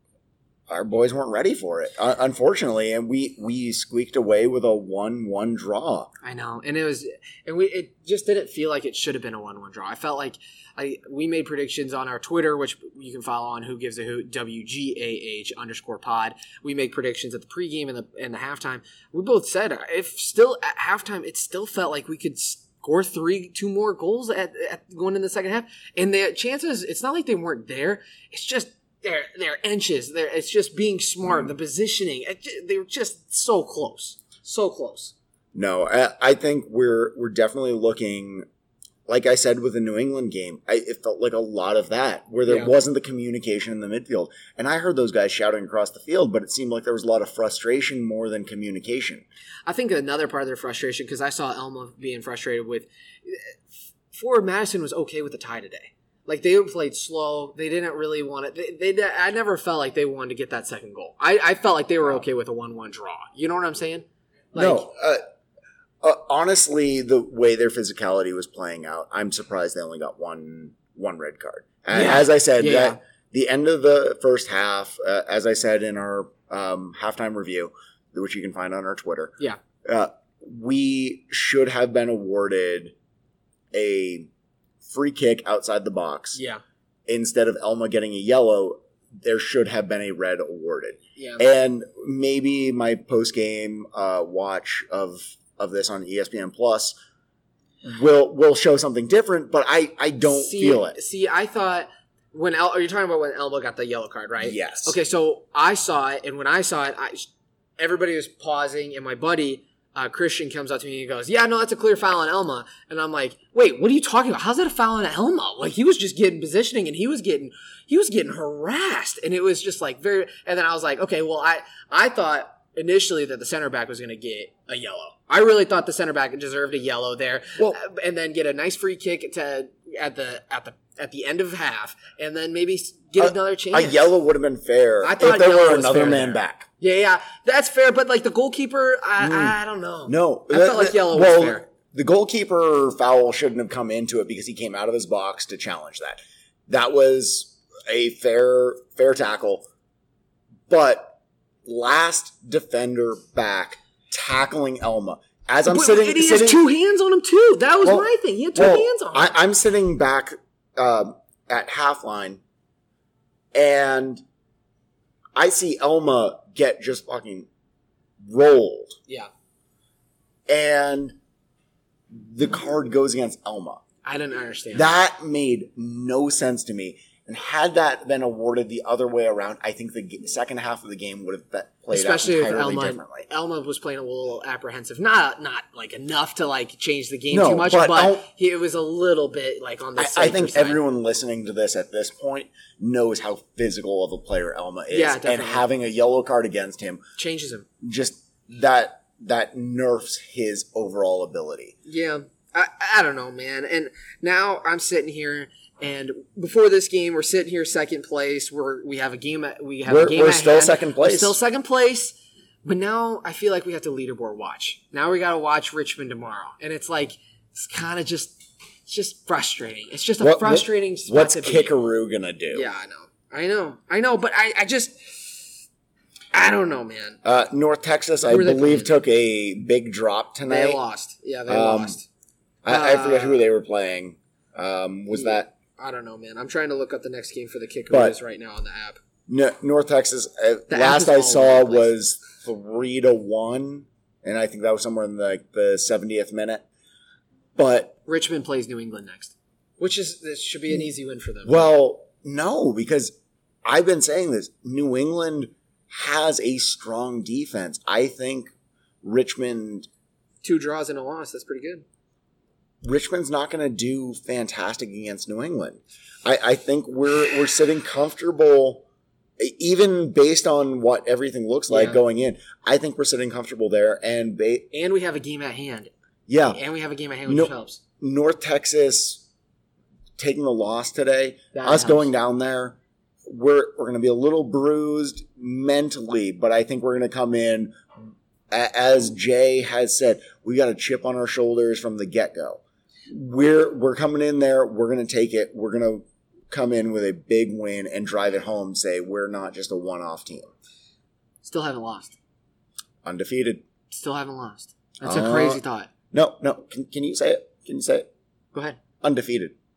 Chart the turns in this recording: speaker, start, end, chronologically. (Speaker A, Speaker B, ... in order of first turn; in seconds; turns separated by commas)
Speaker A: 0.7-6.1, Speaker B: 6.2-35.1, Speaker A: 35.5-38.5, Speaker A: 39.1-49.2, Speaker B: 42.5-42.7, Speaker B: 49.7-53.6, Speaker B: 54.1-64.9, Speaker A: 64.5-65.2, Speaker A: 66.0-83.0, Speaker B: 71.9-73.0, Speaker A: 83.7-84.3, Speaker A: 84.8-86.4, Speaker B: 86.3-86.6, Speaker A: 87.1-97.0, Speaker B: 91.2-91.5, Speaker A: 97.8-101.0, Speaker B: 100.2-134.1, Speaker A: 104.4-105.0, Speaker A: 133.2-136.7, Speaker B: 135.0-141.7, Speaker A: 139.2-139.6, Speaker A: 140.1-149.7, Speaker A: 150.7-156.6, Speaker B: 155.7-159.3, Speaker A: 157.8-162.4, Speaker A: 163.5-164.2, Speaker A: 165.3-167.5, Speaker A: 168.2-169.0, Speaker A: 170.5-171.2, Speaker A: 172.1-173.8, Speaker B: 174.0-174.9, Speaker A: 174.7-183.2, Speaker B: 181.9-190.8, Speaker A: 187.3-188.3, Speaker A: 190.0-197.0, Speaker B: 194.9-195.7, Speaker B: 197.2-197.7, Speaker A: 197.8-201.8, Speaker B: 201.9-221.8, Speaker A: 209.9-211.4, Speaker A: 220.2-222.7, Speaker B: 222.5-225.6, Speaker B: 226.3-227.2, Speaker A: 227.2-230.8, Speaker B: 228.3-228.9, Speaker B: 230.4-232.1, Speaker A: 231.5-232.0, Speaker A: 232.6-235.5, Speaker B: 232.7-233.4, Speaker B: 235.1-239.0, Speaker A: 237.9-238.2, Speaker A: 239.3-246.6, Speaker B: 240.7-241.9, Speaker A: 247.6-248.0, Speaker B: 248.1-251.7, Speaker A: 251.4-258.5, Speaker A: 259.0-259.9, Speaker B: 260.4-261.9, Speaker A: 262.8-268.8, Speaker A: 269.4-274.7, Speaker B: 271.7-272.0, Speaker B: 274.7-275.9, Speaker A: 276.3-276.6, Speaker B: 276.5-277.8, Speaker A: 277.3-279.2, Speaker A: 280.2-282.8, Speaker B: 281.5-282.1, Speaker A: 283.3-287.8, Speaker A: 288.5-300.5, Speaker B: 301.4-302.2, Speaker A: 303.0-303.6, Speaker B: 303.9-305.9, Speaker A: 305.0-305.6, Speaker A: 306.1-308.1, Speaker B: 308.5-308.8, Speaker A: 309.0-309.6